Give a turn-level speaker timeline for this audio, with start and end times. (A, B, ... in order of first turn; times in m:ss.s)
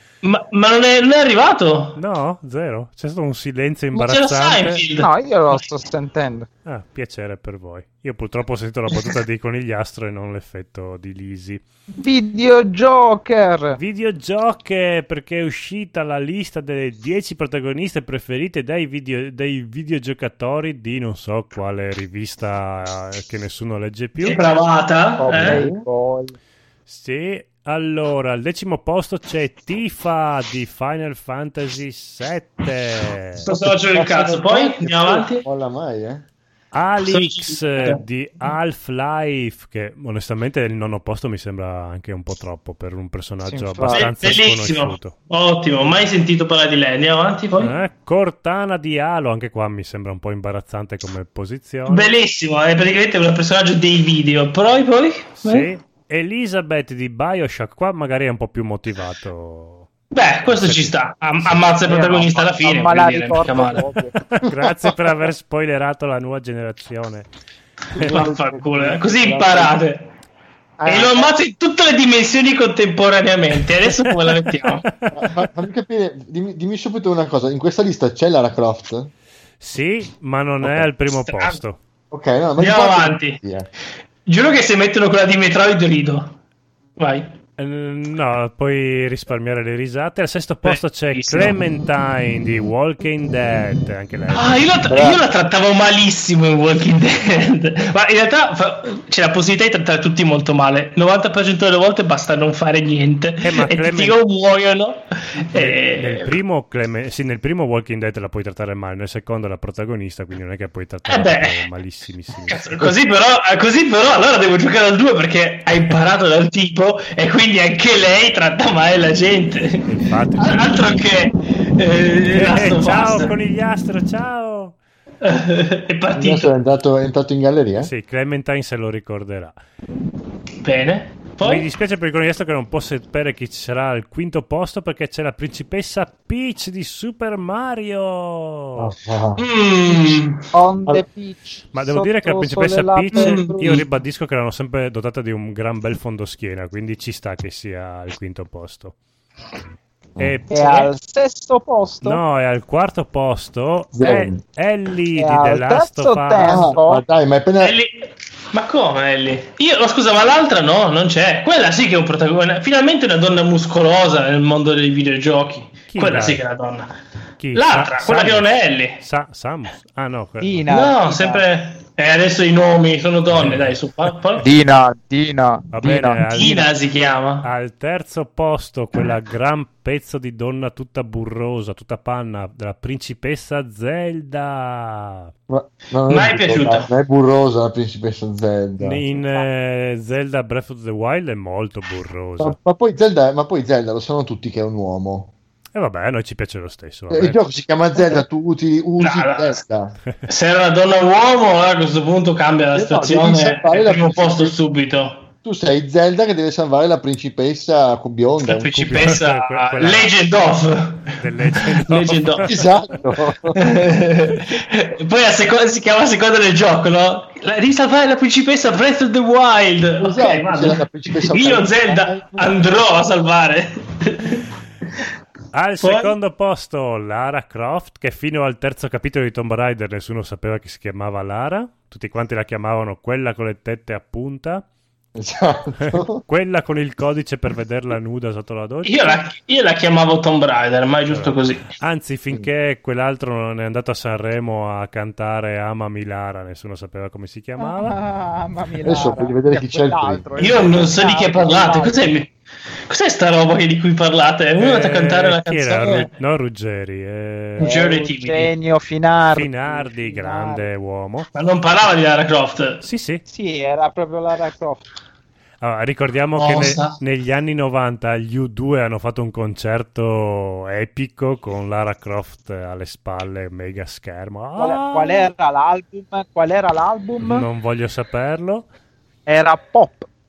0:00.2-0:02.0 A
0:02.0-0:04.8 B
0:03.9-0:05.6 A
0:05.0-0:06.5 C
0:06.6-0:11.6 B
0:12.0-0:13.8 C
0:13.8-0:24.4 B
0:24.2-0:25.6 A
0:25.2-0:26.4 C
0:25.3-0:25.8 D
0:26.9-0:33.5 B
0:33.4-0:35.4 A
0:33.4-0:36.2 D
0:36.7-0:45.2 B
0:37.0-0:38.0 A
0:43.4-0:44.1 C
0:43.9-0:47.8 A
0:47.6-0:52.1 B
0:51.9-0:55.7 A
0:55.4-0:59.9 B
1:00.1-1:03.8 A
1:00.4-1:01.7 B
1:01.9-1:04.2 C
1:04.4-1:07.3 B
1:07.9-1:08.2 B
1:08.0-1:09.7 D
1:08.0-1:10.1 A
1:10.8-1:11.3 C
1:10.9-1:14.9 A
1:13.9-1:15.2 B
1:15.1-1:19.1 D
1:19.6-1:21.8 B
1:21.1-1:21.6 A
1:22.1-1:23.7 D
1:22.6-1:23.4 A
1:24.3-1:26.4 A
1:27.0-1:27.3 A
1:27.6-1:34.8 B
1:30.6-1:31.6 A
1:34.3-1:46.3 A
1:34.9-1:35.2 D
1:43.4-1:44.2 B
1:45.5-1:52.9 B
1:51.1-1:51.7 A
1:52.5-2:03.3 A
1:59.9-2:01.0 B
2:02.4-2:04.8 B
2:05.2-2:06.5 A
2:06.1-2:07.9 D
2:07.8-2:09.6 B
2:10.6-2:11.6 A
2:11.4-2:18.9 B
2:18.8-2:19.4 D
2:19.4-2:20.5 A
2:20.5-2:23.8 C
2:21.7-2:29.0 B
2:23.1-2:23.8 A
2:30.2-2:30.9 B
2:30.5-2:32.2 C
2:32.0-2:36.8 B
2:34.0-2:34.4 D
2:35.2-2:37.0 C
2:36.4-2:37.8 D
2:37.6-2:46.9 A
2:45.9-2:46.4 B
2:47.4-2:50.7 B
2:47.6-2:49.0 A
2:50.4-2:51.4 C
2:50.7-2:54.5 A
2:53.3-2:53.8 B
2:54.4-2:56.3 C
2:55.7-2:56.7 B
2:56.2-2:57.5 A
2:57.4-3:05.3 B
3:05.5-3:09.0 D
3:06.1-3:06.9 A
3:08.8-3:12.6 B
3:09.1-3:09.4 C
3:12.4-3:15.3 D
3:15.8-3:17.4 B
3:17.1-3:20.0 D
3:19.0-3:19.6 A
3:20.3-3:25.3 A
3:22.7-3:24.6 D
3:25.4-3:29.2 D
3:28.4-3:32.5 A
3:28.7-3:30.1 B
3:31.2-3:32.6 B
3:32.4-3:33.6 D
3:33.6-3:44.5 A
3:40.0-3:42.6 D
3:45.5-3:54.6 B
3:45.8-3:46.1 A
3:55.2-3:56.2 D
3:55.9-3:59.2 B
3:58.8-4:01.7 A
4:01.1-4:08.0 B
4:07.6-4:12.0 C
4:08.8-4:10.3 D
4:10.4-4:12.3 A
4:12.9-4:16.1 A
4:14.6-4:17.7 B
4:17.6-4:18.5 A
4:17.6-4:20.7 C
4:19.3-4:21.3 B
4:21.3-4:22.8 A
4:22.8-4:23.2 B
4:23.3-4:24.9 C
4:25.6-4:35.3 B
4:26.4-4:27.0 A
4:34.6-4:37.5 C
4:37.2-4:38.7 B
4:39.3-4:40.1 C